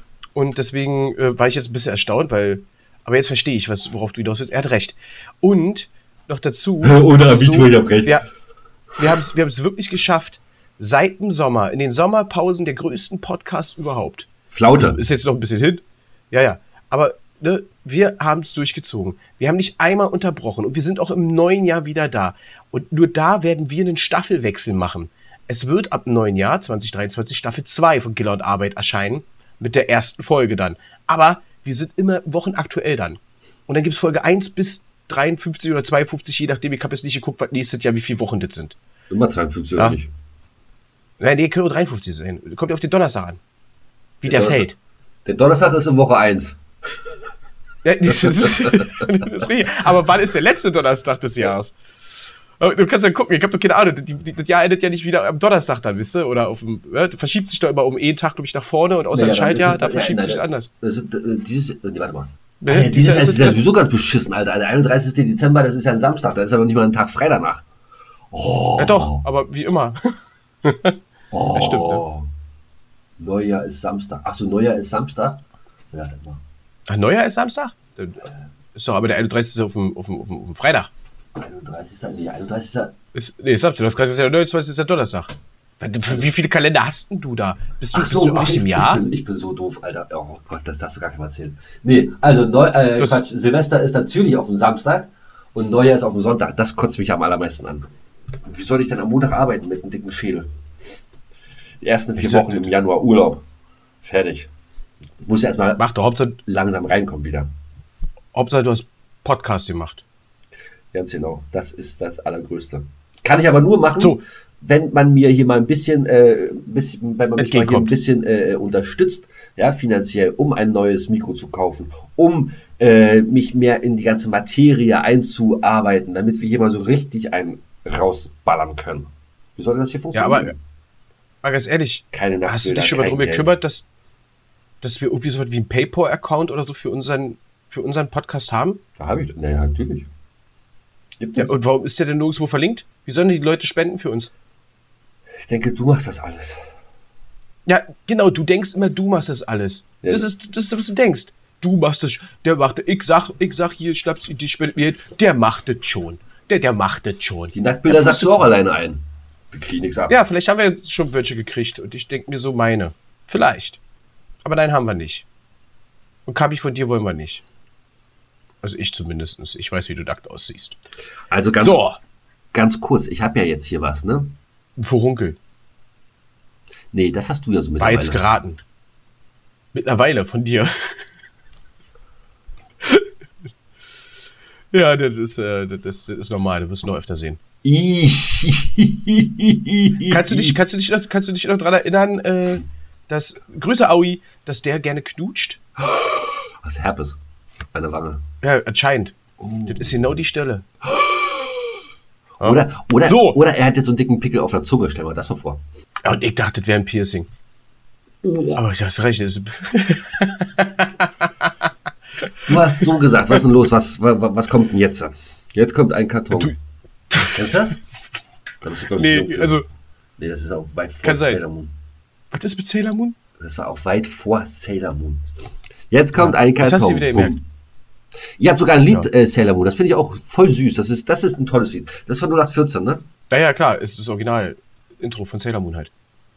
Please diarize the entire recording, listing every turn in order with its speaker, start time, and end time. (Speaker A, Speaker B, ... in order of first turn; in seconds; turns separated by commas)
Speaker A: 0.3-8.2, Speaker B: 6.8-8.2, Speaker A: 9.0-38.8, Speaker B: 14.5-15.0, Speaker B: 39.1-40.1, Speaker A: 41.2-43.4, Speaker A: 44.2-44.8, Speaker B: 44.2-44.6, Speaker B: 45.2-46.6, Speaker A: 47.8-51.8, Speaker B: 48.0-49.2, Speaker A: 52.6-60.7, Speaker B: 59.1-67.6, Speaker A: 62.6-63.6, Speaker B: 68.3-69.2, Speaker A: 68.8-71.0, Speaker B: 71.3-72.3, Speaker A: 71.5-72.0, Speaker B: 73.2-76.4, Speaker A: 76.9-80.9, Speaker B: 81.3-82.9, Speaker A: 83.1-89.0, Speaker B: 87.9-97.9, Speaker A: 93.0-93.2, Speaker B: 98.4-100.5, Speaker B: 101.8-103.4, Speaker A: 102.2-102.7, Speaker B: 104.0-104.5, Speaker B: 105.2-105.8, Speaker A: 105.8-106.4, Speaker B: 106.5-107.5, Speaker A: 108.3-110.0, Speaker B: 110.9-130.6, Speaker A: 117.4-117.9, Speaker A: 130.1-130.5, Speaker A: 131.4-133.9, Speaker B: 132.1-133.5, Speaker A: 134.8-138.8, Speaker B: 139.0-140.1, Speaker B: 141.2-141.5, Speaker A: 141.3-144.3, Speaker B: 145.4-146.6, Speaker A: 147.7-158.4, Speaker B: 150.0-150.3, Speaker B: 157.5-160.2, Speaker A: 160.1-163.8, Speaker A: 164.4-165.2, Speaker A: 166.3-167.4, Speaker A: 168.6-170.8, Speaker B: 171.3-171.8, Speaker A: 171.6-172.0, Speaker B: 172.5-174.3, Speaker A: 174.8-175.4, Speaker B: 176.9-178.2, Speaker A: 177.8-178.6, Speaker A: 179.7-181.1, Speaker A: 184.7-187.4, Speaker B: 187.6-190.6, Speaker A: 190.0-195.6, Speaker B: 195.8-197.2, Speaker B: 197.7-198.2, Speaker A: 198.4-199.2, Speaker B: 199.4-200.1, Speaker A: 199.7-200.7, Speaker B: 200.8-201.7, Speaker A: 202.4-203.4, Speaker B: 202.4-205.6, Speaker A: 206.0-207.3, Speaker B: 208.2-208.6, Speaker A: 208.6-211.5, Speaker A: 212.2-212.9, Speaker B: 212.4-216.5, Speaker A: 217.1-217.5, Speaker B: 217.2-217.8, Speaker B: 218.6-219.6, Speaker A: 218.9-219.7, Speaker B: 220.2-221.7, Speaker A: 221.0-221.4, Speaker A: 222.3-223.2, Speaker B: 223.4-225.2, Speaker B: 225.9-227.4, Speaker A: 226.2-227.3, Speaker B: 228.4-233.0, Speaker A: 233.3-235.9